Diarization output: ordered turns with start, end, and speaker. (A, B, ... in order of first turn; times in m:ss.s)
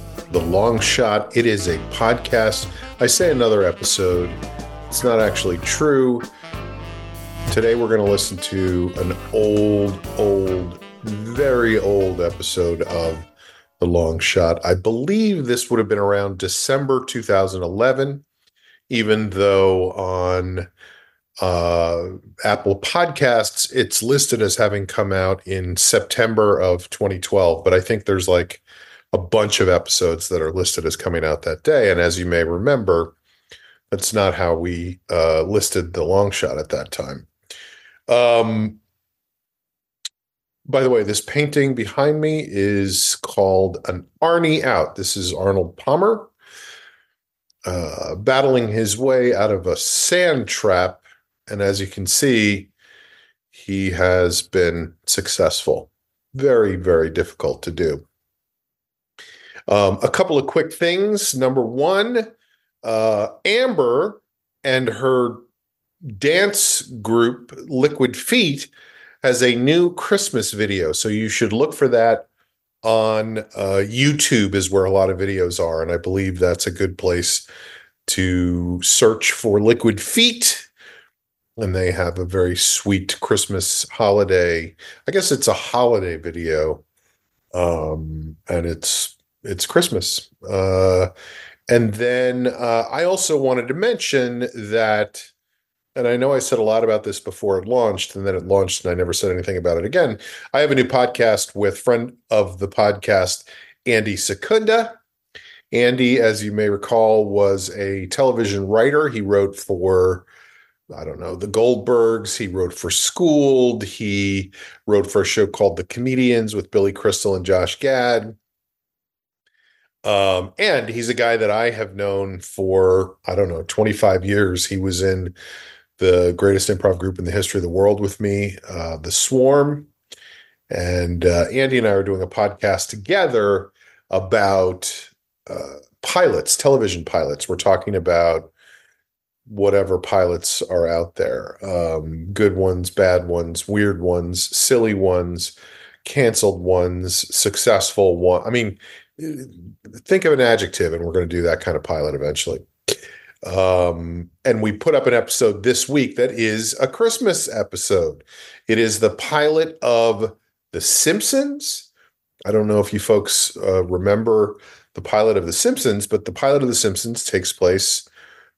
0:00.3-0:06.3 A
0:07.5-0:13.3 A
0:13.8-0:18.2 A
0:18.9-0:20.7 A
0:21.4-0:33.2 A
0:33.9-0:37.3 A
0:38.1-0:38.8 A
0:40.7-0:46.3 A
0:47.6-0:52.7 A
0:53.5-0:58.0 A
0:59.7-1:02.3 A
1:02.8-1:05.4 A
1:06.1-1:08.7 A
1:09.2-1:12.3 A
1:12.8-1:17.5 A
1:18.1-1:20.7 A
1:21.6-1:26.8 A
1:27.5-1:31.1 A
1:31.7-1:35.3 A
1:36.0-1:45.0 A
1:45.7-1:50.3 A
1:50.9-1:58.4 A
2:00.0-2:05.4 A
2:06.0-2:09.9 A
2:10.7-2:18.5 A
2:19.5-2:41.9 A
2:42.5-2:48.1 A